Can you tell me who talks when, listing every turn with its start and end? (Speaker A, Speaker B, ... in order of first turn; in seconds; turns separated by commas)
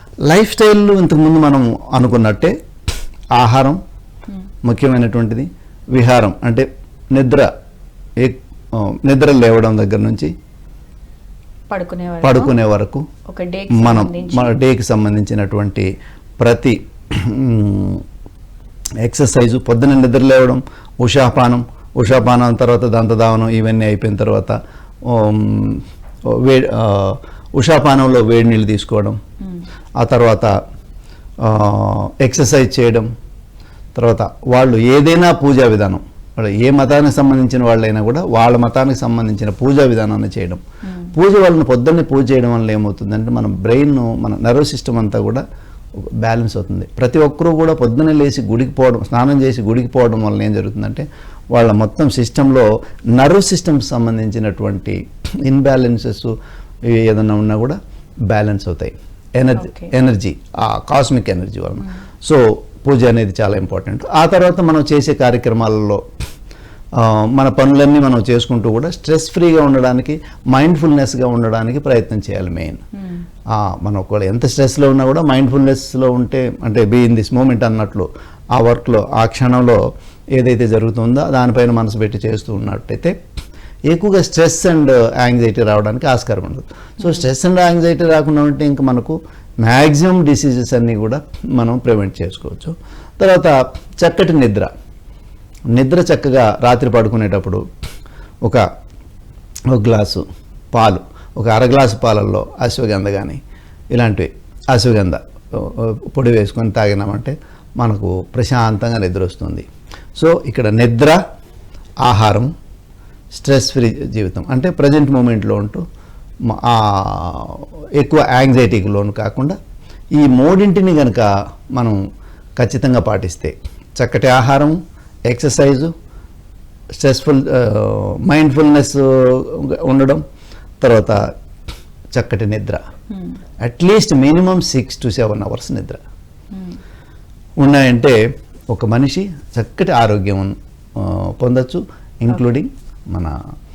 Speaker A: 0.3-2.5, Speaker A: 3.4-3.8, Speaker A: 4.7-7.5, Speaker A: 8.2-10.3, Speaker B: 11.7-12.5, Speaker A: 12.2-13.1, Speaker B: 13.3-14.5, Speaker A: 13.7-18.0, Speaker A: 19.0-29.2, Speaker A: 30.0-30.5, Speaker A: 31.4-33.1, Speaker A: 34.0-40.6, Speaker A: 41.1-45.4, Speaker A: 46.2-56.4, Speaker A: 56.9-57.8, Speaker A: 58.3-66.0, Speaker B: 59.6-59.9, Speaker A: 67.0-72.8, Speaker B: 73.0-73.2, Speaker A: 73.5-79.8, Speaker A: 80.3-83.1, Speaker A: 83.9-94.7, Speaker A: 95.7-97.6, Speaker A: 99.7-103.4, Speaker A: 103.9-109.7, Speaker A: 110.2-111.2, Speaker A: 112.0-112.5, Speaker A: 113.3-115.8, Speaker A: 116.5-119.6, Speaker A: 120.2-122.0, Speaker A: 122.6-124.8, Speaker A: 125.3-125.9, Speaker A: 127.0-130.2, Speaker A: 130.8-131.2, Speaker A: 132.1-132.8, Speaker B: 133.1-133.4, Speaker A: 133.6-136.0, Speaker B: 136.5-136.8, Speaker A: 137.6-138.2, Speaker A: 138.7-143.3